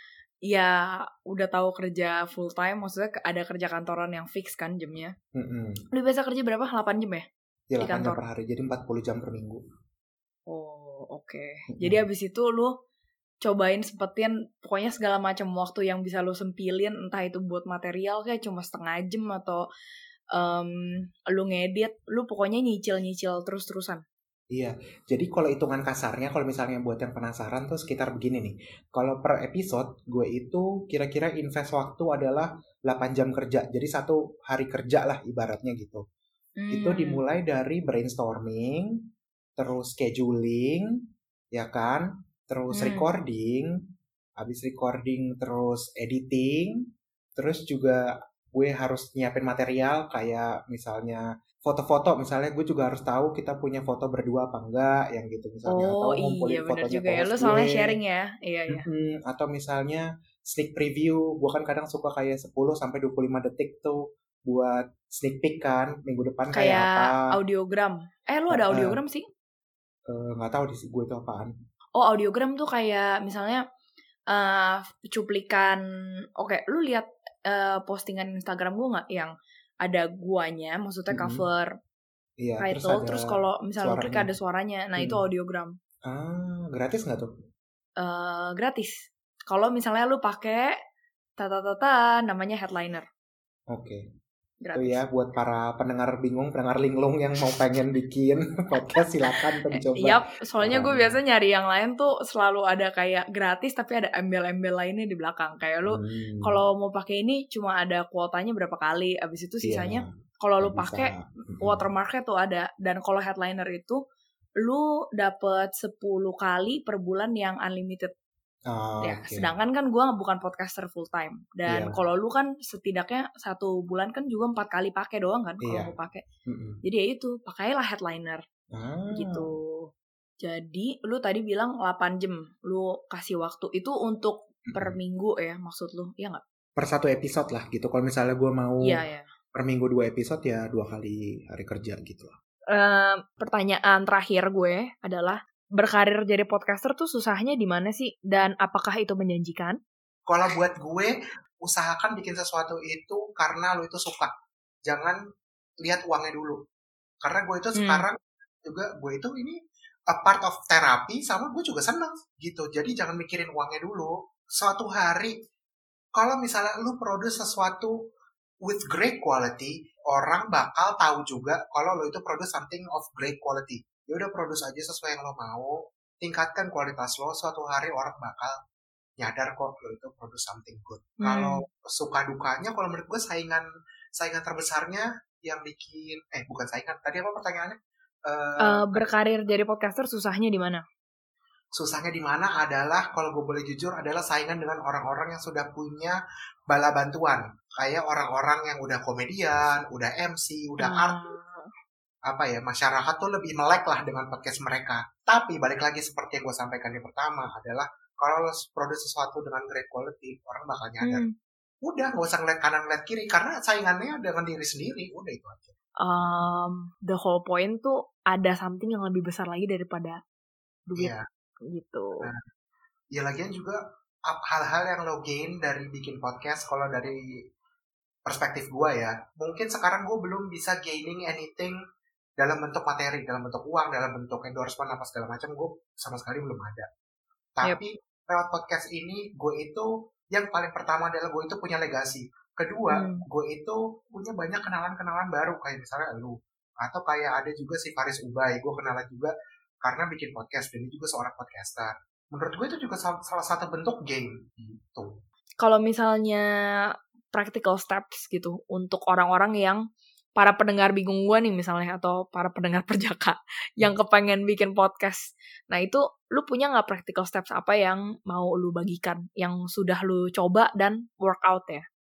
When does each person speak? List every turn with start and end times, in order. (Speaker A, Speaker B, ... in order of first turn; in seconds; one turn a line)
Speaker A: 0.5-5.2
Speaker B: 5.3-5.8
Speaker A: 5.9-7.3
Speaker B: 7.7-9.6
Speaker A: 7.8-8.2
Speaker A: 10.5-12.7
Speaker B: 11.7-12.0
Speaker A: 13.4-19.6
Speaker A: 20.3-24.0
Speaker B: 24.5-36.0
Speaker A: 36.6-37.2
Speaker B: 36.7-38.9
Speaker B: 39.6-40.9
Speaker B: 41.5-43.7
Speaker A: 42.7-43.1
Speaker B: 44.4-46.8
Speaker B: 47.4-48.0
Speaker B: 48.5-58.0
Speaker A: 55.7-58.9
Speaker B: 58.7-67.2
Speaker A: 66.5-69.3
Speaker B: 68.5-69.0
Speaker B: 70.1-71.5
Speaker A: 72.0-73.6
Speaker A: 74.3-75.8
Speaker A: 76.4-81.7
Speaker B: 81.1-81.4
Speaker B: 82.4-84.3
Speaker A: 82.6-85.7
Speaker B: 85.0-85.2
Speaker B: 86.1-87.3
Speaker A: 88.0-90.8
Speaker A: 91.4-93.0
Speaker B: 93.7-94.0
Speaker A: 94.6-95.0
Speaker B: 94.8-101.2
Speaker A: 99.7-114.0
Speaker B: 105.9-106.6
Speaker B: 109.6-111.8
Speaker A: 114.6-118.1
Speaker B: 118.7-119.5
Speaker A: 119.0-126.2
Speaker B: 121.7-122.0
Speaker B: 125.6-125.9
Speaker B: 126.5-126.8
Speaker A: 126.8-128.4
Speaker B: 128.7-129.4
Speaker A: 129.1-129.9
Speaker A: 130.4-136.4
Speaker B: 134.7-135.0
Speaker B: 136.8-139.0
Speaker A: 138.8-139.3
Speaker B: 139.6-142.3
Speaker A: 142.7-149.8
Speaker B: 150.3-151.1
Speaker B: 151.7-154.3
Speaker B: 154.9-155.2
Speaker B: 155.8-156.6
Speaker B: 157.2-159.6
Speaker A: 157.8-158.0
Speaker B: 160.1-165.3
Speaker B: 166.2-167.9
Speaker B: 168.7-178.6
Speaker B: 179.2-183.6
Speaker A: 181.2-181.6
Speaker B: 184.2-189.1
Speaker A: 188.6-190.8
Speaker B: 191.8-196.2
Speaker B: 196.7-201.2
Speaker A: 200.8-201.7
Speaker B: 202.3-211.2
Speaker A: 211.0-211.3
Speaker B: 211.8-215.8
Speaker A: 216.0-220.2
Speaker A: 220.9-221.1
Speaker B: 221.0-221.2
Speaker A: 221.7-222.3
Speaker B: 223.1-227.2
Speaker B: 228.3-231.8
Speaker B: 232.4-236.9
Speaker B: 237.6-249.3
Speaker A: 242.9-243.2
Speaker B: 249.8-255.1
Speaker A: 255.6-256.4
Speaker A: 257.3-259.8
Speaker A: 260.4-271.8